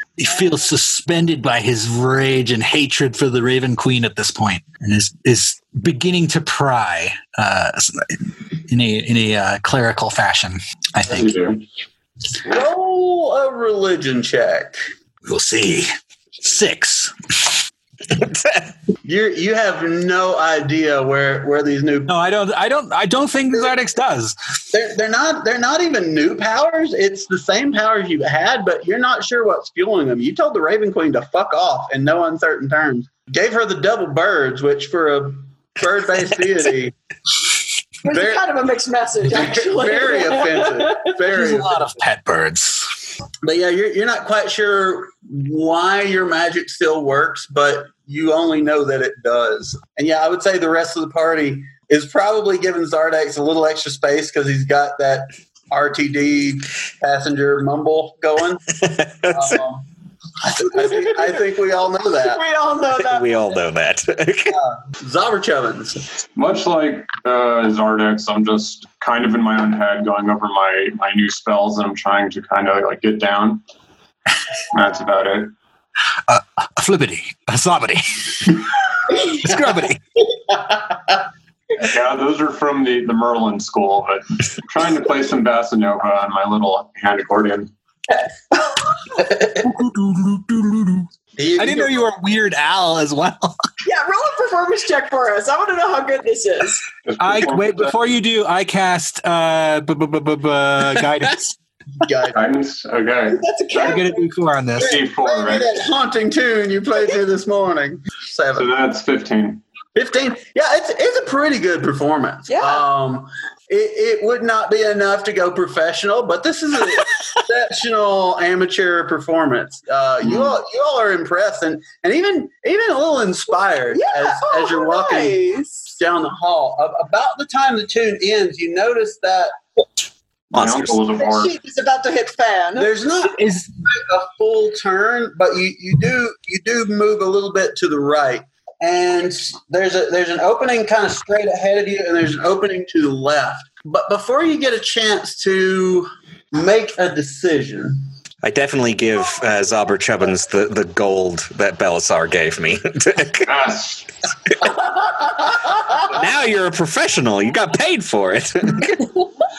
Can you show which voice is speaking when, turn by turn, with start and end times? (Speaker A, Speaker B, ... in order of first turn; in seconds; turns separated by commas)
Speaker A: 0.2-8.2, Speaker A: 8.7-11.4, Speaker B: 11.1-11.6, Speaker C: 12.4-14.8, Speaker A: 15.2-15.9, Speaker A: 16.4-17.1, Speaker D: 18.2-18.6, Speaker C: 19.0-22.1, Speaker A: 22.1-24.4, Speaker C: 24.7-36.9, Speaker E: 38.0-41.1, Speaker C: 38.0-38.5, Speaker C: 39.3-41.8, Speaker A: 41.3-42.8, Speaker C: 43.4-58.6, Speaker D: 58.8-59.6, Speaker C: 59.3-59.9, Speaker E: 60.6-61.5, Speaker C: 60.6-62.4, Speaker E: 62.1-63.4, Speaker D: 62.9-64.6, Speaker C: 64.5-66.0, Speaker B: 66.3-73.6, Speaker B: 74.7-75.5, Speaker A: 76.3-80.0, Speaker B: 81.8-87.7, Speaker A: 89.5-93.5, Speaker C: 91.4-92.1, Speaker E: 93.8-96.8, Speaker B: 97.0-98.0, Speaker A: 97.2-101.5, Speaker C: 102.0-102.5, Speaker B: 102.3-104.0, Speaker E: 103.3-104.2, Speaker A: 103.8-105.0, Speaker B: 104.8-105.7, Speaker C: 104.8-108.7, Speaker B: 108.5-109.6, Speaker C: 110.0-125.4, Speaker E: 112.5-112.8, Speaker E: 123.9-125.9, Speaker C: 125.9-129.5, Speaker B: 130.5-131.6, Speaker D: 130.5-131.0, Speaker E: 131.2-132.9, Speaker C: 132.8-148.0, Speaker D: 148.4-153.5, Speaker B: 153.4-154.0, Speaker D: 156.1-159.0